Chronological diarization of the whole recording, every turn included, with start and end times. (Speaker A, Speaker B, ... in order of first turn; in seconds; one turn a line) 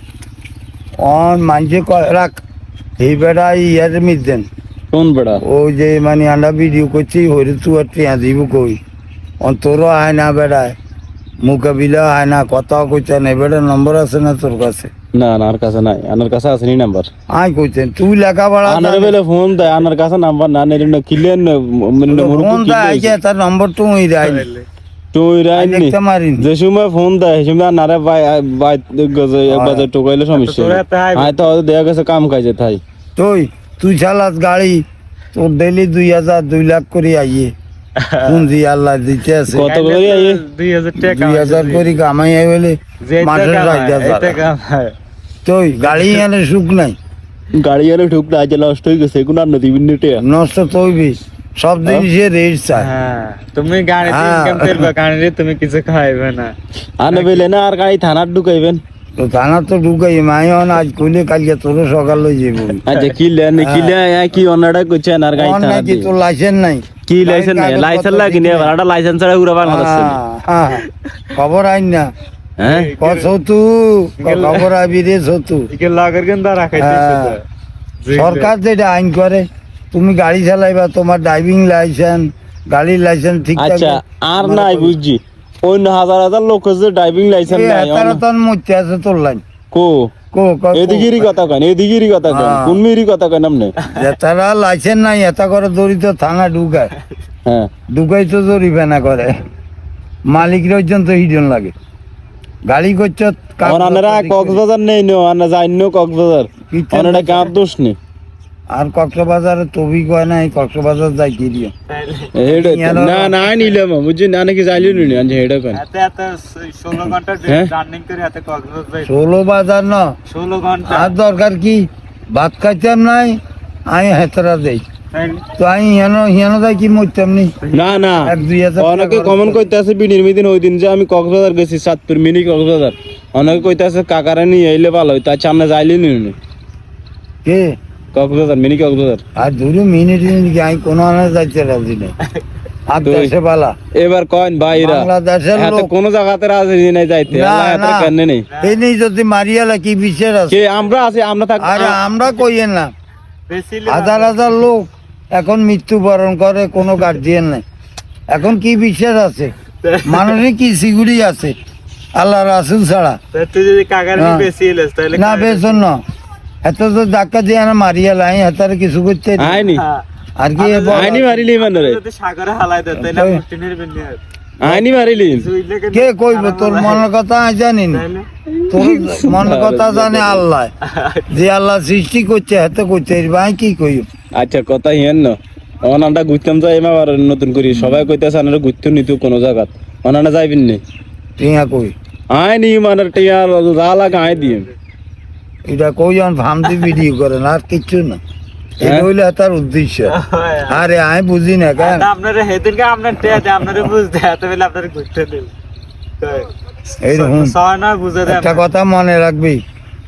Speaker A: 1.0-2.4
Speaker A: 3.0-4.5
Speaker B: 4.9-5.4
Speaker A: 5.4-8.8
Speaker A: 9.4-10.8
Speaker A: 11.4-14.9
Speaker B: 15.1-17.1
Speaker A: 17.3-19.1
Speaker B: 18.6-23.2
Speaker A: 22.1-24.5
Speaker C: 24.2-24.6
Speaker B: 25.1-32.8
Speaker A: 25.5-26.4
Speaker A: 29.5-29.9
Speaker C: 30.3-31.4
Speaker A: 33.1-37.5
Speaker C: 38.0-38.5
Speaker A: 38.2-39.7
Speaker B: 39.5-40.4
Speaker C: 39.6-42.0
Speaker A: 41.0-44.4
Speaker C: 43.0-44.9
Speaker A: 45.4-47.0
Speaker C: 45.9-46.2
Speaker B: 47.5-50.2
Speaker A: 50.2-52.9
Speaker C: 52.8-56.5
Speaker A: 54.0-54.9
Speaker B: 57.0-58.8
Speaker C: 57.1-57.5
Speaker A: 59.2-62.8
Speaker B: 62.8-66.1
Speaker A: 63.6-63.9
Speaker A: 65.3-68.7
Speaker B: 67.1-70.2
Speaker A: 69.6-70.8
Speaker A: 71.3-72.1
Speaker B: 72.6-72.9
Speaker C: 72.6-73.3
Speaker A: 73.0-75.7
Speaker C: 74.2-74.7
Speaker C: 75.7-77.4
Speaker A: 76.8-77.3
Speaker C: 78.0-78.5
Speaker A: 78.1-85.0
Speaker B: 83.6-88.2
Speaker A: 87.5-89.4
Speaker B: 89.7-90.1
Speaker A: 90.3-91.3
Speaker B: 90.7-93.8
Speaker A: 92.3-92.8
Speaker A: 93.9-96.9
Speaker A: 97.9-99.3
Speaker A: 100.3-101.7
Speaker A: 102.7-104.6
Speaker B: 103.6-108.0
Speaker A: 106.7-107.5
Speaker A: 108.7-111.7
Speaker C: 111.9-112.3
Speaker B: 112.3-115.8
Speaker A: 112.5-113.4
Speaker C: 115.7-119.1
Speaker B: 117.0-117.7
Speaker A: 119.0-120.1
Speaker C: 120.3-121.1
Speaker A: 120.9-124.8
Speaker C: 125.1-125.4
Speaker A: 125.6-127.5
Speaker C: 127.6-128.2
Speaker B: 127.7-136.3
Speaker A: 128.2-129.7
Speaker A: 137.4-137.7
Speaker B: 138.1-139.2
Speaker A: 139.3-142.1
Speaker A: 142.9-143.7
Speaker B: 143.0-143.3
Speaker B: 143.9-148.4
Speaker A: 144.8-145.9
Speaker A: 147.3-150.6
Speaker C: 148.5-148.8
Speaker B: 150.5-152.0
Speaker A: 151.6-152.9
Speaker C: 153.5-154.6
Speaker A: 153.9-157.6
Speaker A: 158.3-159.5
Speaker C: 159.8-160.4
Speaker A: 160.1-161.6
Speaker A: 162.1-163.2
Speaker C: 163.3-165.8
Speaker A: 164.1-164.5
Speaker A: 165.1-166.0
Speaker A: 166.6-169.6
Speaker B: 169.4-169.8
Speaker C: 169.7-170.0
Speaker A: 170.4-171.3
Speaker C: 170.6-174.2
Speaker B: 170.9-172.0
Speaker A: 172.9-173.4
Speaker B: 174.6-175.5
Speaker C: 175.2-177.0
Speaker A: 175.9-178.0
Speaker C: 177.9-178.3
Speaker B: 178.5-180.4
Speaker A: 178.7-180.7
Speaker C: 180.8-181.3
Speaker A: 181.3-184.1
Speaker B: 184.3-190.8
Speaker A: 191.4-191.9
Speaker B: 192.3-194.7
Speaker C: 194.3-194.6
Speaker A: 195.7-198.2
Speaker A: 198.8-202.1
Speaker B: 198.8-199.1
Speaker C: 200.1-200.8
Speaker C: 201.8-205.5
Speaker C: 206.2-206.5
Speaker A: 207.0-207.5
Speaker C: 207.0-208.6
Speaker A: 208.2-209.6